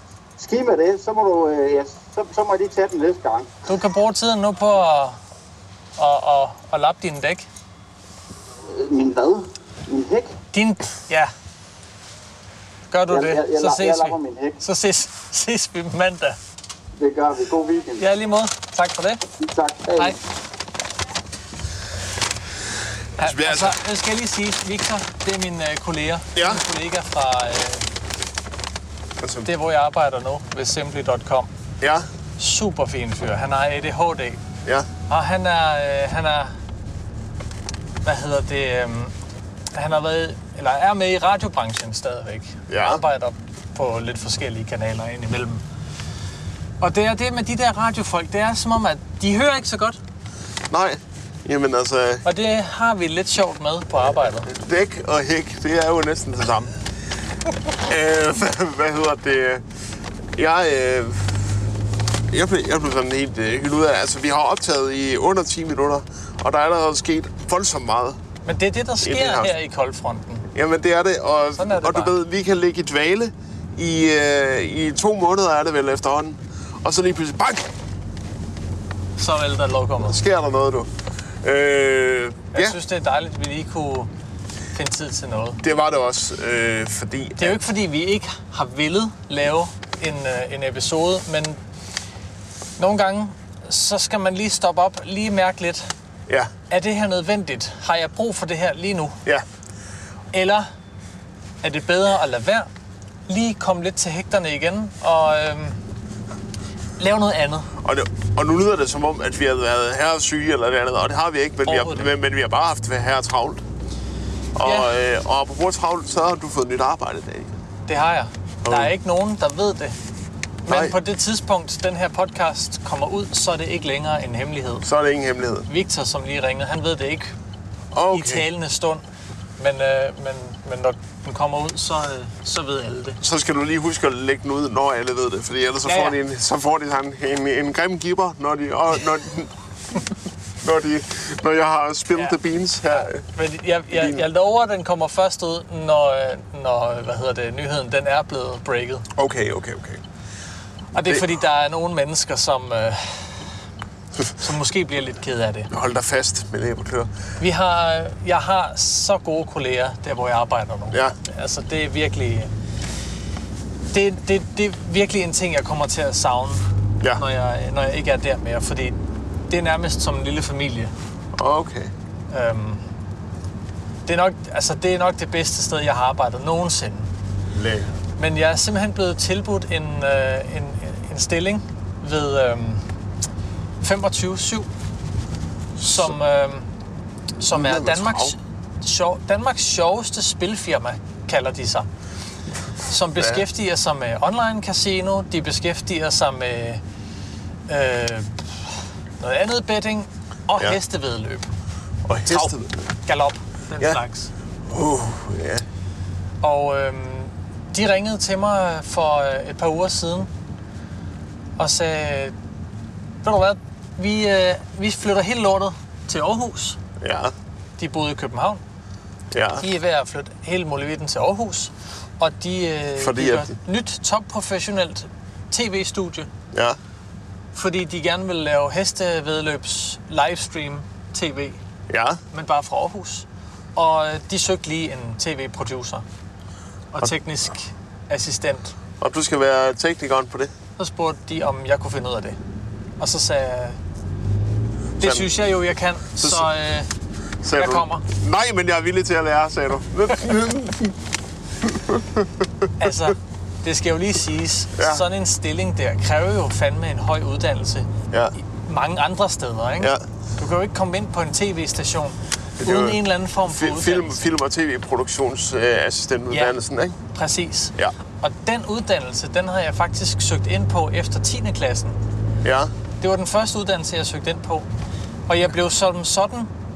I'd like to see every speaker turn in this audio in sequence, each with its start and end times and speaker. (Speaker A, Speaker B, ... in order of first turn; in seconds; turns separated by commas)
Speaker A: 0.4-3.6, Speaker B: 3.7-5.2, Speaker B: 6.0-7.5, Speaker A: 8.7-10.3, Speaker B: 10.5-11.3, Speaker B: 12.9-16.4, Speaker A: 13.1-14.6, Speaker A: 17.0-18.1, Speaker B: 18.0-19.2, Speaker A: 19.4-20.2, Speaker C: 23.2-23.8, Speaker B: 23.2-27.9, Speaker C: 26.4-26.6, Speaker C: 29.2-29.5, Speaker B: 29.5-31.5, Speaker C: 31.8-32.1, Speaker B: 32.4-34.4, Speaker B: 35.1-36.5, Speaker B: 38.0-39.1, Speaker B: 39.7-45.6, Speaker C: 42.7-43.0, Speaker B: 46.8-50.0, Speaker C: 50.7-52.3, Speaker B: 52.2-54.5, Speaker C: 54.5-56.8, Speaker C: 57.8-59.6, Speaker C: 60.4-61.5, Speaker C: 62.3-68.2, Speaker B: 68.5-70.5, Speaker C: 69.0-69.5, Speaker C: 70.5-77.7, Speaker B: 71.6-72.2, Speaker B: 79.2-80.2, Speaker C: 80.0-80.9, Speaker C: 81.4-82.8, Speaker B: 82.5-84.1, Speaker B: 84.7-85.6, Speaker C: 85.6-87.6, Speaker B: 87.4-91.6, Speaker B: 92.8-95.9, Speaker B: 96.7-99.2, Speaker B: 100.3-100.7, Speaker B: 101.6-102.7, Speaker B: 103.3-105.8, Speaker B: 107.0-107.7, Speaker C: 107.8-113.6, Speaker B: 111.7-112.1, Speaker C: 114.6-117.5, Speaker B: 114.6-114.9, Speaker B: 117.9-120.0, Speaker C: 118.6-118.9, Speaker B: 120.7-124.9, Speaker C: 120.7-121.0, Speaker C: 124.8-125.7, Speaker B: 125.7-127.3, Speaker C: 127.9-128.4, Speaker B: 128.1-129.0, Speaker B: 129.6-133.2, Speaker C: 133.2-139.5, Speaker B: 135.9-136.2, Speaker C: 140.6-143.2, Speaker B: 142.2-149.1, Speaker C: 143.9-144.2, Speaker C: 149.2-150.0, Speaker B: 150.9-153.4, Speaker B: 154.4-155.7, Speaker C: 155.7-157.1, Speaker B: 157.4-162.5, Speaker B: 163.9-166.6, Speaker B: 167.2-169.0, Speaker B: 169.5-170.9, Speaker C: 171.4-171.9, Speaker B: 172.3-172.8, Speaker B: 174.1-177.1, Speaker C: 177.5-177.9, Speaker B: 178.2-182.8, Speaker B: 183.8-184.7, Speaker C: 185.8-186.2, Speaker B: 185.8-186.7, Speaker B: 187.4-191.9, Speaker C: 187.5-188.4, Speaker B: 192.9-196.8, Speaker C: 193.2-193.4, Speaker B: 197.7-198.5, Speaker B: 199.2-201.5, Speaker C: 202.1-202.9, Speaker B: 202.3-202.5, Speaker B: 203.1-204.3, Speaker C: 204.7-205.6, Speaker B: 206.4-210.3, Speaker B: 211.6-212.3, Speaker B: 213.2-216.8, Speaker C: 217.0-217.3, Speaker B: 217.8-218.6, Speaker C: 219.3-219.7, Speaker B: 219.6-226.3, Speaker C: 223.0-223.6, Speaker C: 226.5-226.8, Speaker B: 227.5-231.6, Speaker C: 231.9-232.2, Speaker B: 232.3-236.1, Speaker B: 236.9-238.7, Speaker C: 239.0-240.5, Speaker B: 240.8-242.4, Speaker B: 243.0-243.8, Speaker B: 245.0-246.9, Speaker C: 245.0-245.3, Speaker C: 246.2-246.5, Speaker C: 247.4-250.9, Speaker B: 247.5-248.0, Speaker C: 251.6-252.7, Speaker B: 252.8-257.9, Speaker C: 254.8-255.0, Speaker B: 258.6-264.3, Speaker C: 262.6-267.0, Speaker B: 267.1-272.0, Speaker C: 272.4-272.7, Speaker B: 273.0-274.7, Speaker B: 275.3-276.5